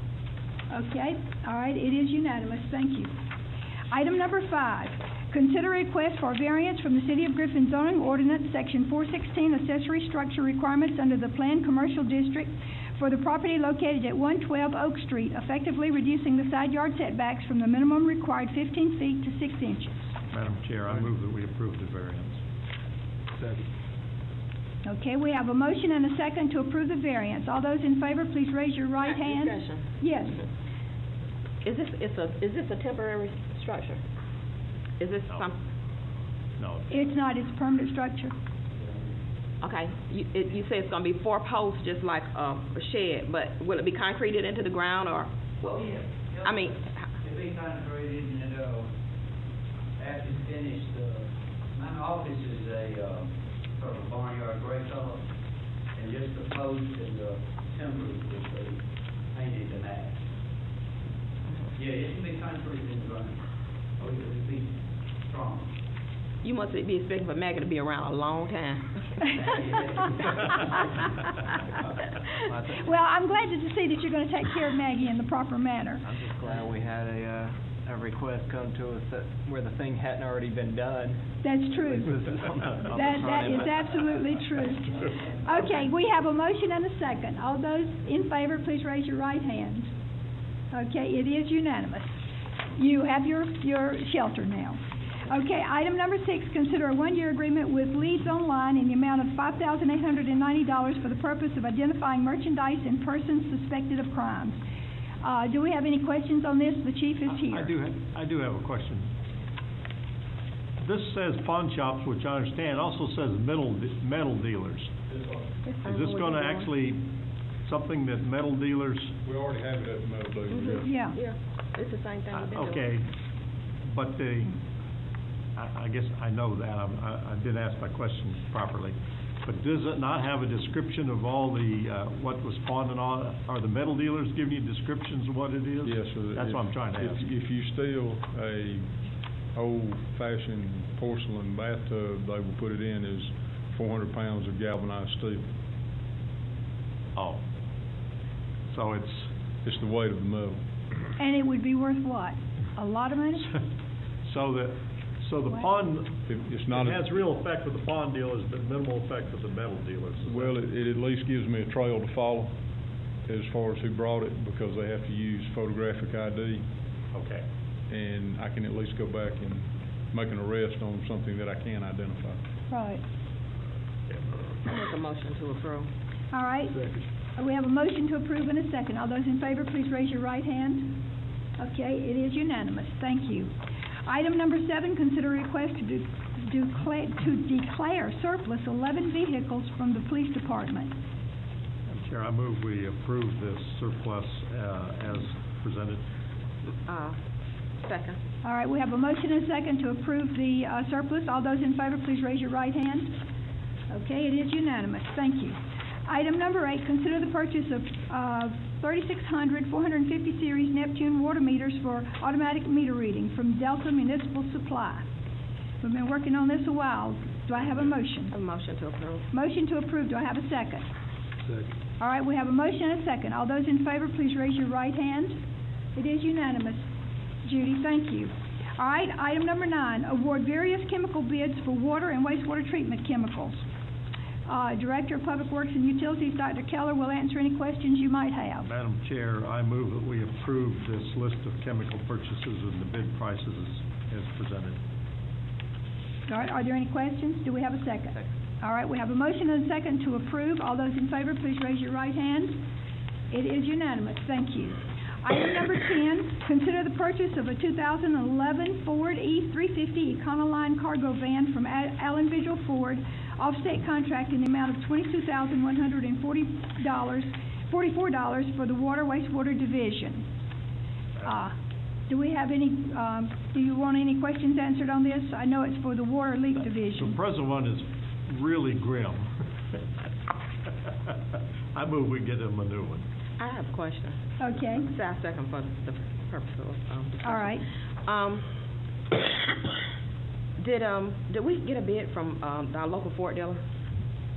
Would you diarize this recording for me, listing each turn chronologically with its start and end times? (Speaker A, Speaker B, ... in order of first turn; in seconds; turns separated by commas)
Speaker A: 0.7-3.1, Speaker A: 3.9-20.1, Speaker B: 20.3-22.4, Speaker A: 24.8-30.4, Speaker C: 29.0-29.9, Speaker C: 31.6-34.0, Speaker C: 35.0-35.6, Speaker B: 36.6-37.0, Speaker A: 36.9-38.3, Speaker D: 38.8-39.1, Speaker C: 39.6-45.3, Speaker D: 45.6-48.9, Speaker C: 46.4-47.0, Speaker D: 50.0-55.2, Speaker D: 55.9-58.8, Speaker D: 59.3-60.2, Speaker D: 61.7-63.4, Speaker D: 64.0-64.7, Speaker D: 65.3-65.7, Speaker C: 66.4-69.3, Speaker D: 69.2-71.3, Speaker E: 72.5-72.8, Speaker A: 72.6-76.1, Speaker E: 76.2-81.3, Speaker A: 81.4-82.2, Speaker E: 81.9-83.8, Speaker A: 82.9-89.9, Speaker A: 90.7-92.2, Speaker A: 92.8-104.6, Speaker A: 105.2-107.7, Speaker B: 107.3-109.1, Speaker B: 110.8-114.9, Speaker C: 115.6-116.7, Speaker B: 115.8-117.0, Speaker B: 117.6-119.1, Speaker F: 119.2-120.9, Speaker C: 120.5-122.9, Speaker A: 120.8-121.2, Speaker B: 122.3-123.1, Speaker B: 123.8-124.6, Speaker B: 125.5-137.2, Speaker F: 135.8-138.9, Speaker F: 139.5-145.4, Speaker B: 147.2-147.4, Speaker B: 148.7-149.3, Speaker F: 149.6-150.6, Speaker A: 151.2-153.6, Speaker B: 154.2-160.5, Speaker F: 156.2-157.0, Speaker F: 160.2-162.5, Speaker F: 163.2-166.6, Speaker B: 167.1-167.4, Speaker F: 167.9-172.4, Speaker A: 172.7-173.0, Speaker B: 174.1-174.5, Speaker C: 174.7-175.9, Speaker A: 176.3-181.0, Speaker A: 181.6-183.5, Speaker A: 184.1-190.9, Speaker B: 191.9-196.0, Speaker C: 196.8-197.2, Speaker C: 197.8-198.2, Speaker A: 198.4-203.2, Speaker A: 203.9-215.1, Speaker A: 215.8-218.3, Speaker C: 218.3-219.3, Speaker A: 219.3-220.8, Speaker A: 222.0-225.4, Speaker A: 225.9-226.9, Speaker A: 227.4-233.6, Speaker A: 234.4-238.7, Speaker B: 238.6-244.8, Speaker A: 246.3-252.6, Speaker A: 253.3-270.2, Speaker A: 271.2-271.5, Speaker A: 272.1-277.2, Speaker B: 276.9-279.8, Speaker B: 280.6-283.0, Speaker C: 283.4-288.4, Speaker A: 284.4-284.9, Speaker A: 287.2-287.6, Speaker C: 290.6-293.6